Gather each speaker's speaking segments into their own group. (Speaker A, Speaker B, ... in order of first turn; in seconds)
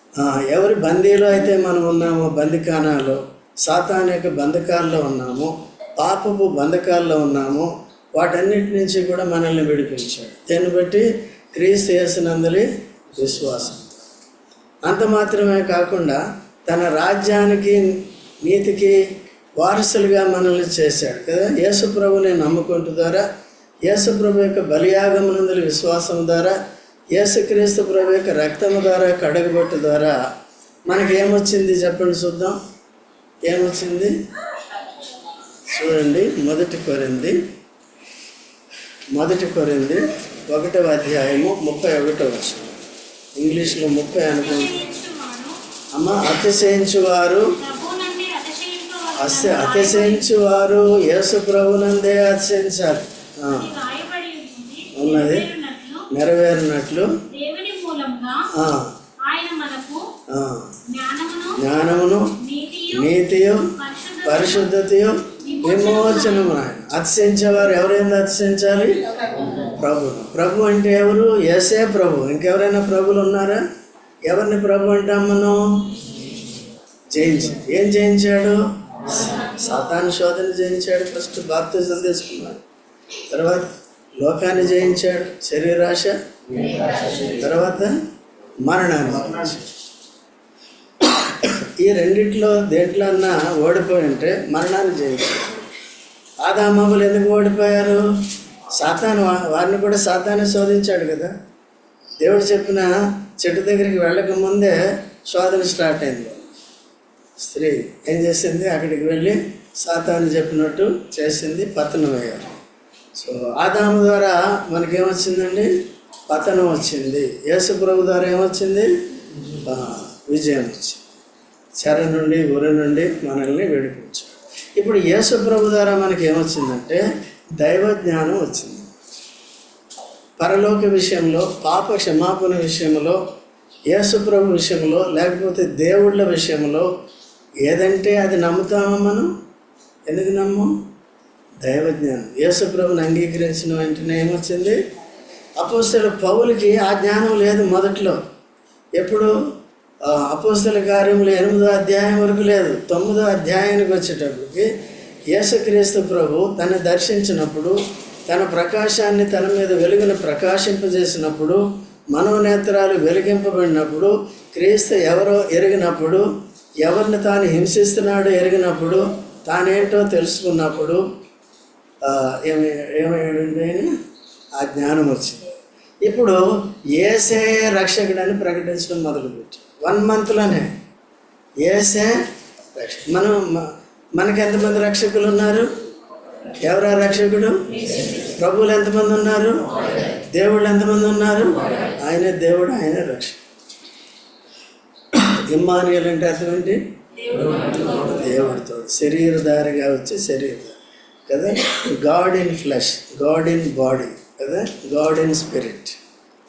Speaker A: 0.2-14.0, 14.8-19.0, 19.6-23.2, 23.8-26.6, 27.1-30.2, 30.9-32.6, 33.4-34.1, 35.6-37.4, 39.1-42.8, 43.4-44.8, 45.9-47.5, 49.2-53.8, 54.9-55.5, 56.1-57.1, 58.5-58.9, 60.3-60.8, 61.5-62.3, 62.9-63.7, 64.2-69.0, 69.6-73.6, 74.3-75.9, 77.1-82.6, 83.3-86.2, 87.1-88.0, 88.6-89.7, 91.0-95.7, 96.4-98.0, 98.8-101.3, 102.2-106.5, 107.4-112.5, 113.2-115.7, 116.3-118.9, 119.6-121.2, 121.8-127.0, 127.6-128.9, 130.4-133.2, 133.9-136.9, 137.6-139.3, 140.1-140.7, 141.6-144.8, 145.6-148.2, 149.0-149.3, 150.0-154.7, 155.3-157.8, 158.3-161.6, 162.1-166.2, 166.8-171.0, 172.0-173.9, 174.6-180.7, 181.6-182.2, 182.7-185.7, 186.5-193.4, 195.1-196.8, 197.5-206.0
Speaker B: 44.4-45.6, 47.6-50.3, 53.5-56.1, 57.3-58.5, 59.2-60.1, 60.9-61.6, 62.4-63.1, 63.8-64.7, 65.4-66.6